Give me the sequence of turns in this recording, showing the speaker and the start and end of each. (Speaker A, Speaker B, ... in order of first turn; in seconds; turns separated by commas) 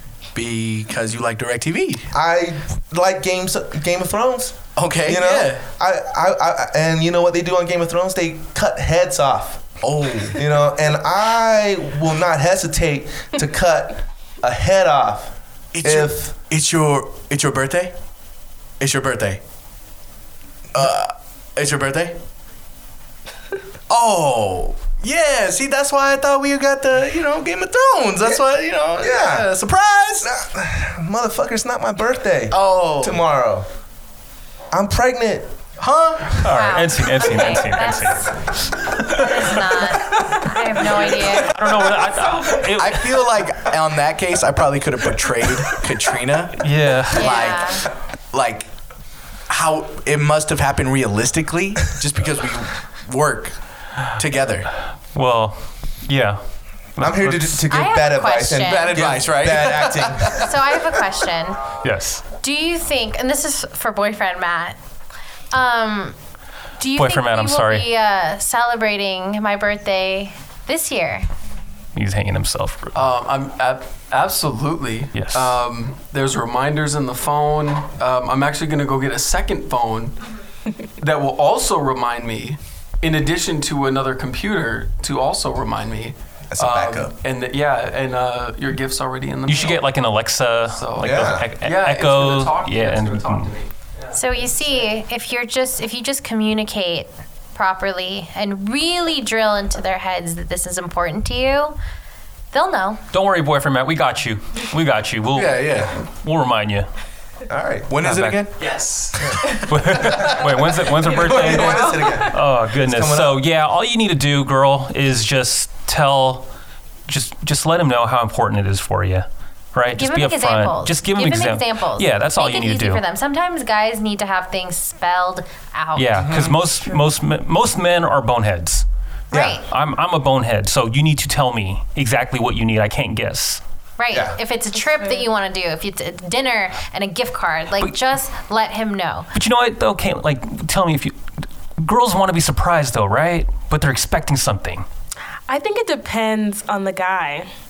Speaker A: 0.3-2.1, Speaker B: 2.1-9.7, Speaker A: 4.8-5.6, Speaker A: 9.8-10.4, Speaker B: 10.3-15.3, Speaker A: 15.7-17.9, Speaker B: 15.8-16.3, Speaker A: 18.8-19.4, Speaker A: 20.7-22.2, Speaker A: 23.9-30.3, Speaker B: 29.0-29.5, Speaker B: 30.2-33.7, Speaker A: 32.5-33.2, Speaker B: 34.7-35.5, Speaker A: 35.8-36.4, Speaker C: 36.4-39.8, Speaker D: 36.5-38.3, Speaker D: 39.0-41.6, Speaker C: 40.9-43.2, Speaker A: 42.8-48.7, Speaker C: 46.6-47.4, Speaker D: 47.2-47.9, Speaker A: 49.5-53.5, Speaker A: 54.2-54.7, Speaker C: 55.1-56.4, Speaker C: 57.0-57.7, Speaker B: 57.0-60.6, Speaker D: 57.7-59.1, Speaker A: 58.6-60.5, Speaker D: 60.4-61.6, Speaker C: 61.8-62.2, Speaker D: 62.4-64.8, Speaker D: 65.5-66.2, Speaker D: 66.8-71.3, Speaker C: 67.0-67.9, Speaker C: 72.0-73.0, Speaker E: 73.0-80.2, Speaker C: 75.1-75.5, Speaker E: 81.0-89.9, Speaker B: 86.5-87.1, Speaker C: 89.5-93.5, Speaker E: 90.7-95.0, Speaker B: 91.0-91.5, Speaker D: 94.2-101.8, Speaker D: 102.5-103.0, Speaker C: 103.1-106.9, Speaker A: 105.3-106.0, Speaker B: 107.5-107.9, Speaker A: 107.9-108.7, Speaker C: 108.0-108.5, Speaker E: 108.6-109.2, Speaker B: 109.2-113.4, Speaker C: 109.5-116.5, Speaker F: 111.1-112.3, Speaker C: 117.1-123.0, Speaker D: 119.9-126.3, Speaker C: 126.0-128.9, Speaker B: 126.3-126.5, Speaker B: 129.3-129.6, Speaker D: 129.3-129.7, Speaker C: 129.7-133.6, Speaker D: 134.0-139.3, Speaker B: 134.1-134.4, Speaker C: 139.3-141.2, Speaker C: 141.8-144.9, Speaker F: 145.5-147.5